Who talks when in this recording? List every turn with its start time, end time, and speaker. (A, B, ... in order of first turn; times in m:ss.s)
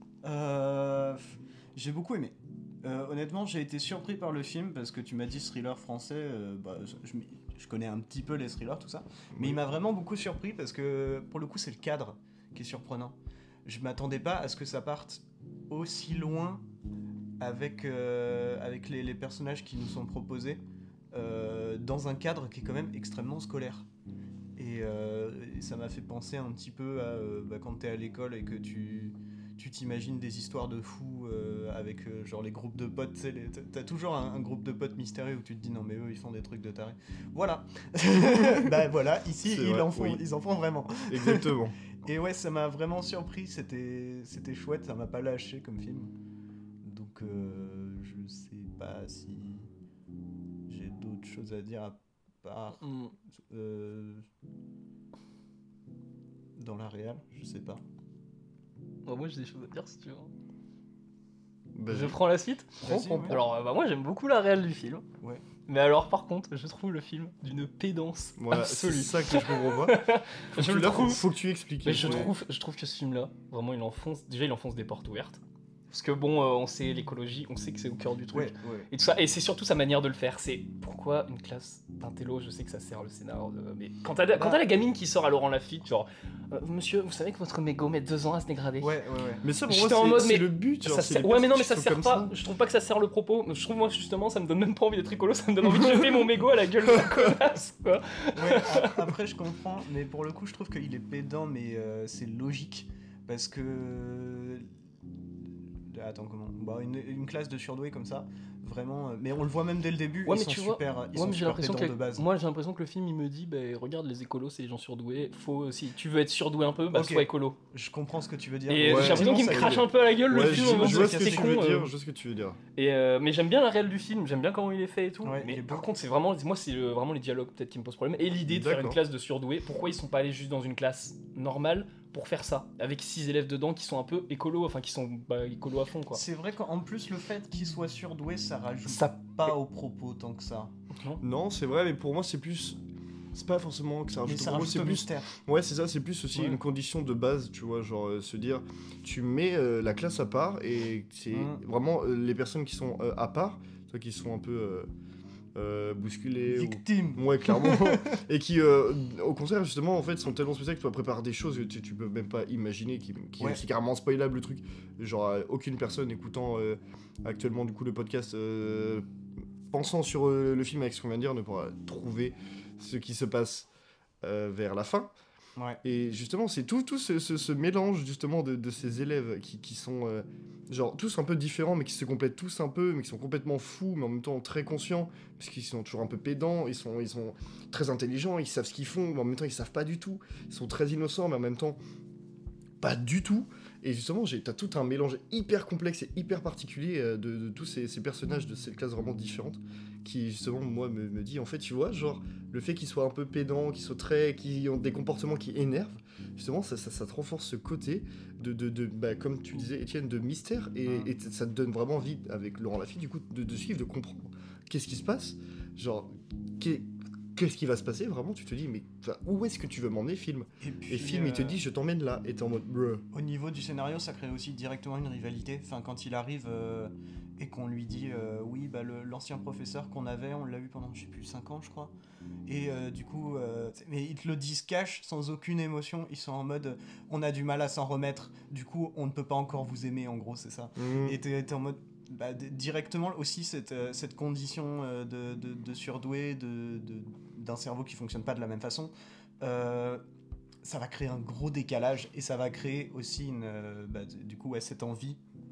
0:00.2-0:16.6 A
0:09.3-0:09.6 B
0:17.4-0:23.9 A
0:24.6-0:46.1 A
0:39.4-0:40.2 B
0:41.1-0:41.8 B
0:46.8-0:49.7 A
0:50.7-0:52.8 A
0:52.8-0:53.1 C
0:53.4-0:54.2 A
0:56.6-0:57.8 A
0:59.1-1:00.3 C
1:01.8-1:02.2 B
1:01.9-1:05.0 C
1:02.8-1:03.4 A
1:05.7-1:11.3 C
1:08.4-1:12.3 B
1:11.8-1:29.0 C
1:11.9-1:12.3 A
1:18.3-1:18.9 A
1:24.4-1:24.6 A
1:28.8-1:29.4 A
1:29.4-1:32.4 B
1:29.7-1:39.1 C
1:38.4-1:44.7 A
1:45.8-1:52.3 A
1:50.3-1:57.6 C
1:56.9-2:01.7 A
1:58.7-2:01.9 C
1:58.8-2:02.6 B
2:02.8-2:16.2 C
2:05.2-2:05.9 A
2:08.5-2:09.0 B
2:16.1-2:20.7 A
2:18.9-2:19.2 C
2:20.9-2:21.2 C
2:21.2-2:22.8 B
2:23.3-2:34.9 B
2:24.2-2:25.3 A
2:31.3-2:31.6 A
2:35.6-2:49.1 B
2:36.4-2:38.2 A
2:49.7-2:53.7 B
2:54.2-2:55.1 B
2:55.6-2:55.8 A
2:55.8-3:11.8 B
3:12.8-3:43.0 B
3:40.6-3:41.6 A
3:43.1-3:51.9 A
3:52.5-4:10.0 A
4:00.8-4:01.2 B
4:10.6-4:15.2 A